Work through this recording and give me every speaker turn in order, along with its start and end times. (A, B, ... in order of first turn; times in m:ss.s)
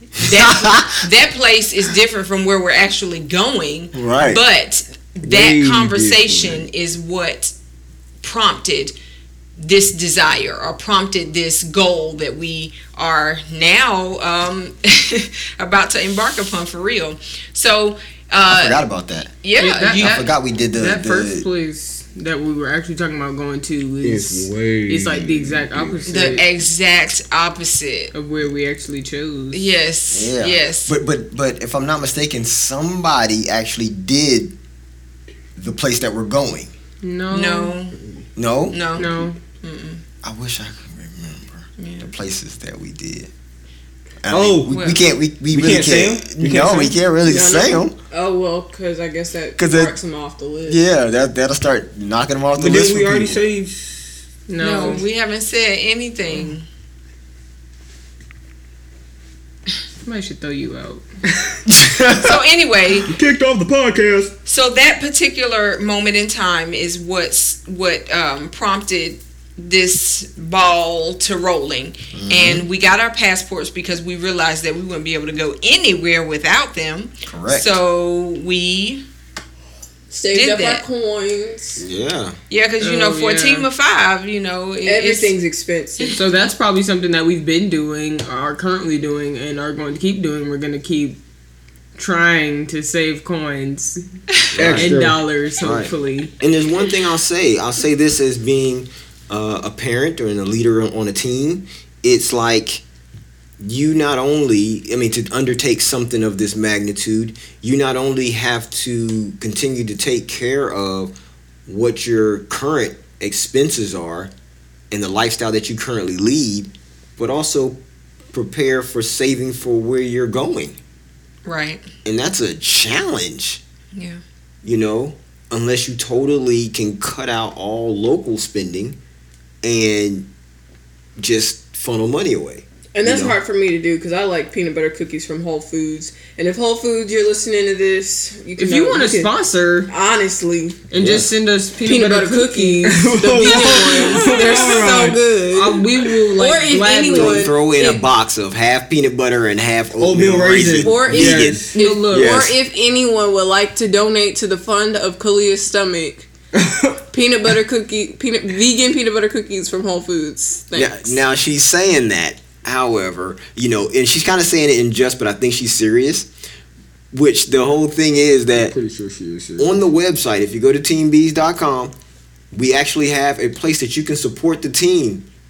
0:00.2-0:07.5 A
0:00.3-0:01.0 B
0:03.9-0:04.4 B
0:05.2-0:06.7 C
0:08.2-0:09.0 A
0:09.6-0:18.8 A
0:18.4-0:19.3 B
0:19.4-0:20.3 A
0:19.6-0:26.5 D
0:20.0-0:21.5 B
0:24.0-0:26.4 C
0:26.1-0:28.1 A
0:28.1-0:29.6 D
0:29.5-0:30.9 A
0:30.1-0:34.5 B
0:35.6-0:36.7 B
0:37.0-0:37.8 D
0:37.3-0:38.0 A
0:38.4-0:39.0 B
0:38.7-0:40.0 A
0:39.0-0:39.4 D
0:40.2-0:43.3 B
0:41.8-0:42.1 A
0:44.2-0:48.0 B
0:44.3-0:44.8 C
0:44.7-0:45.1 A
0:45.5-0:47.0 C
0:47.3-0:50.8 E
0:49.6-0:50.0 B
0:50.7-0:53.4 B
0:52.6-0:54.2 C
0:54.5-0:55.0 D
0:54.6-0:56.7 A
1:00.0-1:01.0 D
1:01.7-1:02.4 B
1:02.1-1:03.1 A
1:03.1-1:04.3 C
1:04.5-1:19.0 A
1:12.1-1:12.6 B
1:17.3-1:17.7 B
1:20.1-1:21.8 E
1:20.3-1:20.8 A
1:21.8-1:22.4 B
1:22.5-1:25.4 A
1:22.8-1:23.7 D
1:24.8-1:26.2 E
1:26.1-1:31.2 D
1:32.0-1:34.0 D
1:34.5-1:35.0 B
1:34.6-1:35.2 C
1:34.7-1:36.3 D
1:35.6-1:42.8 B
1:43.6-1:51.1 B
1:51.7-1:54.3 B
1:54.9-1:57.8 B
1:58.3-2:00.8 B
2:01.4-2:01.9 A
2:02.0-2:03.6 B
2:03.9-2:04.2 A
2:04.6-2:09.0 B
2:09.6-2:10.3 B
2:11.2-2:13.4 B
2:12.9-2:19.3 E
2:18.6-2:19.9 D
2:19.9-2:20.8 E
2:20.9-2:27.5 D
2:21.0-2:21.3 B
2:21.8-2:28.0 E
2:22.9-2:25.2 C
2:27.1-2:32.6 B
2:30.0-2:31.8 C
2:30.8-2:36.3 E
2:31.7-2:32.4 D
2:36.6-2:37.0 C
2:37.1-2:41.2 E
2:40.7-2:46.3 B
2:47.1-2:48.8 B
2:48.5-2:49.8 C
2:49.6-2:51.9 B
2:52.5-2:55.2 B